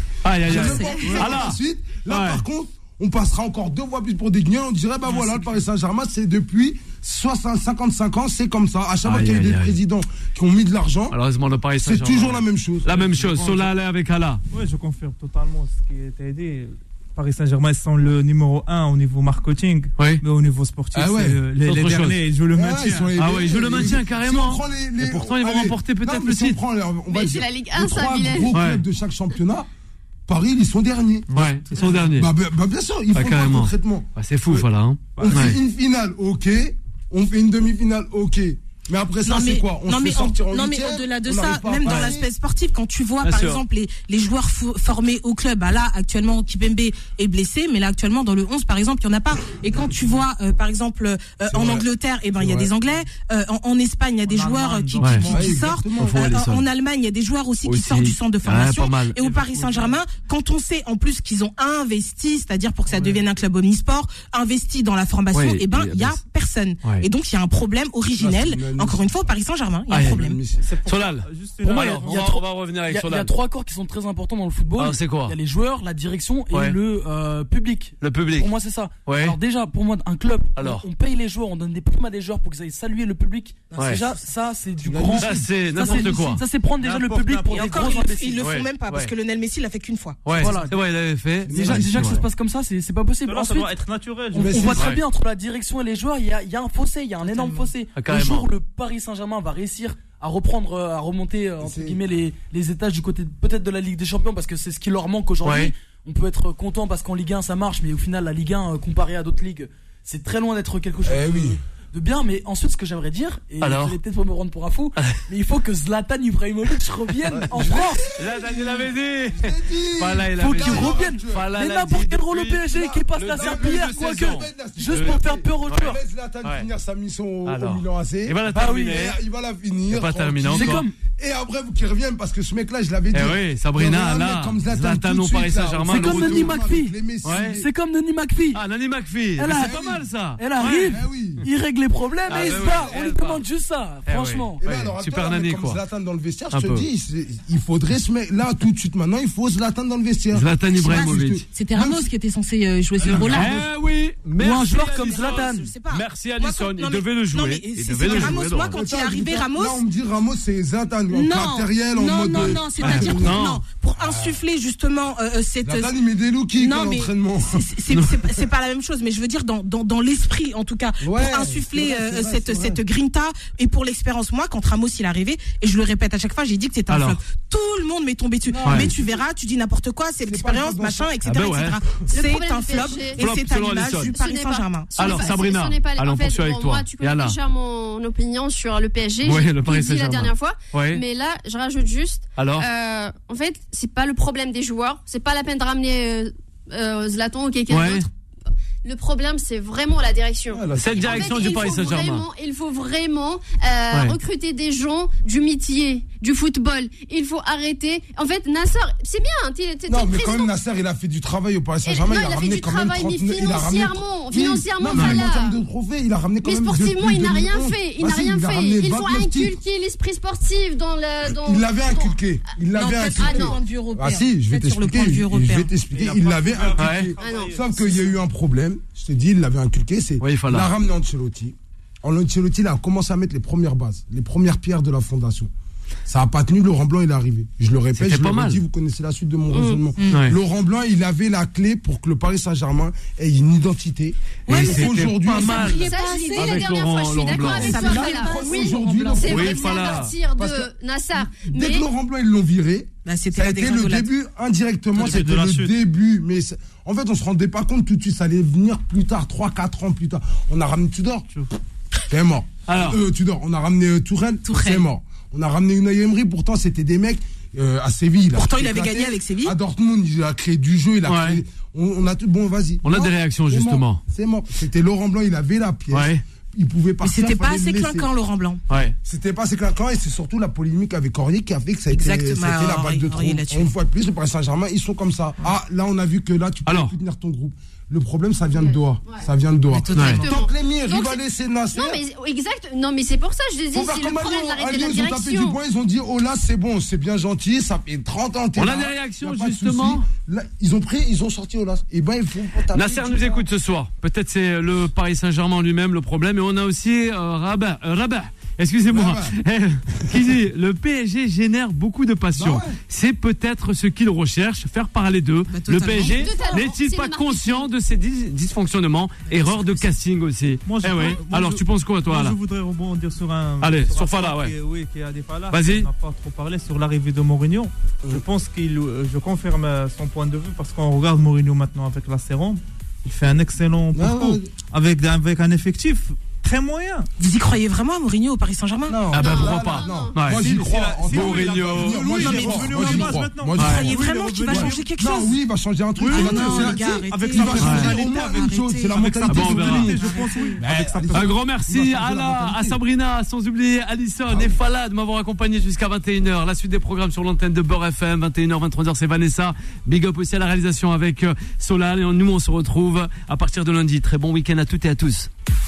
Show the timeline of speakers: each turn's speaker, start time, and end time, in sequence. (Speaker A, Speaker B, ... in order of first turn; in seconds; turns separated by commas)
Speaker A: 0.2-2.4, Speaker B: 0.5-11.2, Speaker C: 0.5-1.4, Speaker D: 0.5-1.1, Speaker C: 5.1-5.6, Speaker A: 9.1-9.8, Speaker A: 11.1-14.4, Speaker B: 11.8-12.9, Speaker C: 12.9-13.7, Speaker C: 14.5-23.1, Speaker B: 20.9-21.4, Speaker A: 21.6-22.2, Speaker B: 22.5-29.7, Speaker A: 23.2-26.6, Speaker E: 27.1-28.5, Speaker A: 28.5-28.8, Speaker B: 30.3-31.3, Speaker C: 31.3-32.1, Speaker A: 31.3-32.3, Speaker B: 31.9-34.7, Speaker A: 33.1-35.6, Speaker C: 35.1-35.5, Speaker B: 35.2-42.3, Speaker D: 39.2-70.4, Speaker A: 41.9-42.1, Speaker A: 43.2-43.6, Speaker B: 51.5-51.9, Speaker B: 52.4-52.7, Speaker C: 54.3-55.7, Speaker B: 55.3-56.3, Speaker A: 56.0-56.6, Speaker A: 57.6-59.2, Speaker C: 59.2-60.0, Speaker C: 62.9-63.2, Speaker A: 65.3-66.2, Speaker B: 68.2-69.2, Speaker A: 69.9-70.2, Speaker B: 70.0-70.6, Speaker C: 70.6-72.3, Speaker A: 70.8-73.3, Speaker F: 72.0-88.5, Speaker A: 74.8-75.4, Speaker A: 76.5-76.8, Speaker A: 78.0-78.5, Speaker A: 79.1-79.4, Speaker A: 80.6-80.8, Speaker D: 83.7-84.3, Speaker B: 84.8-85.5, Speaker A: 85.1-86.4, Speaker C: 86.8-88.0, Speaker D: 87.5-90.3, Speaker A: 88.4-89.1, Speaker A: 90.2-92.2, Speaker F: 90.3-90.8, Speaker B: 91.5-92.2, Speaker F: 91.5-118.0, Speaker C: 93.3-94.8, Speaker B: 94.3-94.9, Speaker A: 94.8-95.0, Speaker D: 97.2-97.7, Speaker A: 98.0-98.5, Speaker B: 101.6-102.0, Speaker A: 105.4-105.7, Speaker B: 111.0-111.6, Speaker A: 113.6-114.0, Speaker A: 115.0-115.2, Speaker A: 117.3-126.7, Speaker B: 117.3-121.5, Speaker F: 120.4-126.0, Speaker B: 122.7-137.7, Speaker A: 127.5-129.2, Speaker F: 128.5-129.1, Speaker A: 129.9-130.8, Speaker F: 130.5-130.9, Speaker A: 133.1-136.7, Speaker F: 135.9-138.6, Speaker A: 137.2-137.6, Speaker A: 138.5-141.0, Speaker F: 139.4-144.6, Speaker B: 139.4-140.0, Speaker B: 140.9-141.4, Speaker A: 142.3-143.4, Speaker B: 142.3-142.9, Speaker A: 144.1-145.8, Speaker B: 144.6-152.1, Speaker A: 146.5-146.9, Speaker A: 150.3-151.4, Speaker D: 150.8-153.7, Speaker A: 153.1-158.8, Speaker B: 153.2-153.5, Speaker F: 154.4-155.7, Speaker D: 154.7-159.8, Speaker B: 158.1-164.4, Speaker D: 161.1-165.9, Speaker A: 162.8-163.6, Speaker B: 165.6-167.6, Speaker D: 166.6-185.2, Speaker A: 167.9-168.3, Speaker B: 171.0-172.8, Speaker A: 176.9-177.2, Speaker B: 178.5-179.2, Speaker B: 180.2-181.1, Speaker A: 181.2-181.8, Speaker E: 182.1-183.2, Speaker A: 183.2-184.1, Speaker E: 183.9-198.1, Speaker A: 185.0-187.4, Speaker A: 189.2-191.0, Speaker A: 192.4-192.7, Speaker A: 197.7-198.1, Speaker E: 198.8-210.5, Speaker B: 200.5-201.6, Speaker A: 200.8-202.2, Speaker A: 203.9-204.2, Speaker B: 209.9-219.6, Speaker E: 211.8-215.6, Speaker A: 214.9-215.2, Speaker E: 216.4-222.2, Speaker B: 221.3-235.5, Speaker D: 222.8-225.7, Speaker E: 223.1-223.6, Speaker C: 225.9-228.1, Speaker A: 226.8-227.1, Speaker E: 227.2-227.5, Speaker A: 230.2-230.7, Speaker B: 236.1-245.9, Speaker A: 238.0-238.6, Speaker E: 239.5-239.8, Speaker D: 240.0-240.2, Speaker A: 240.1-240.4, Speaker D: 244.5-246.7, Speaker A: 244.5-247.9, Speaker E: 245.6-251.8, Speaker D: 247.3-249.3, Speaker B: 247.7-261.3, Speaker A: 249.2-250.1, Speaker D: 253.1-254.1, Speaker C: 254.9-255.7, Speaker B: 262.1-278.1, Speaker A: 262.7-263.0, Speaker D: 264.4-264.9, Speaker D: 268.3-269.6, Speaker A: 271.1-271.4, Speaker A: 272.8-274.0, Speaker A: 275.9-276.2, Speaker D: 277.0-278.6, Speaker A: 278.7-278.9, Speaker B: 279.0-292.0, Speaker D: 281.9-283.7, Speaker A: 286.7-286.9, Speaker E: 288.6-289.2, Speaker D: 289.7-290.4, Speaker E: 290.2-291.2, Speaker E: 291.7-295.6, Speaker B: 293.7-303.5, Speaker A: 298.6-300.1, Speaker A: 302.7-322.4, Speaker B: 308.9-309.4, Speaker B: 312.3-312.8, Speaker D: 315.5-316.5, Speaker E: 316.0-317.7, Speaker D: 319.3-319.9, Speaker C: 320.6-337.1, Speaker A: 323.6-324.5, Speaker A: 325.5-325.9, Speaker B: 333.9-334.5, Speaker D: 337.2-339.0, Speaker B: 338.9-352.8, Speaker E: 339.1-340.2, Speaker A: 339.1-340.4, Speaker C: 340.3-344.9, Speaker A: 341.1-342.1, Speaker D: 342.1-345.4, Speaker A: 343.6-343.9, Speaker C: 346.0-348.0, Speaker D: 346.1-350.6, Speaker A: 347.6-347.9, Speaker C: 348.9-352.7, Speaker A: 349.3-349.9, Speaker A: 351.1-365.3, Speaker B: 354.3-354.6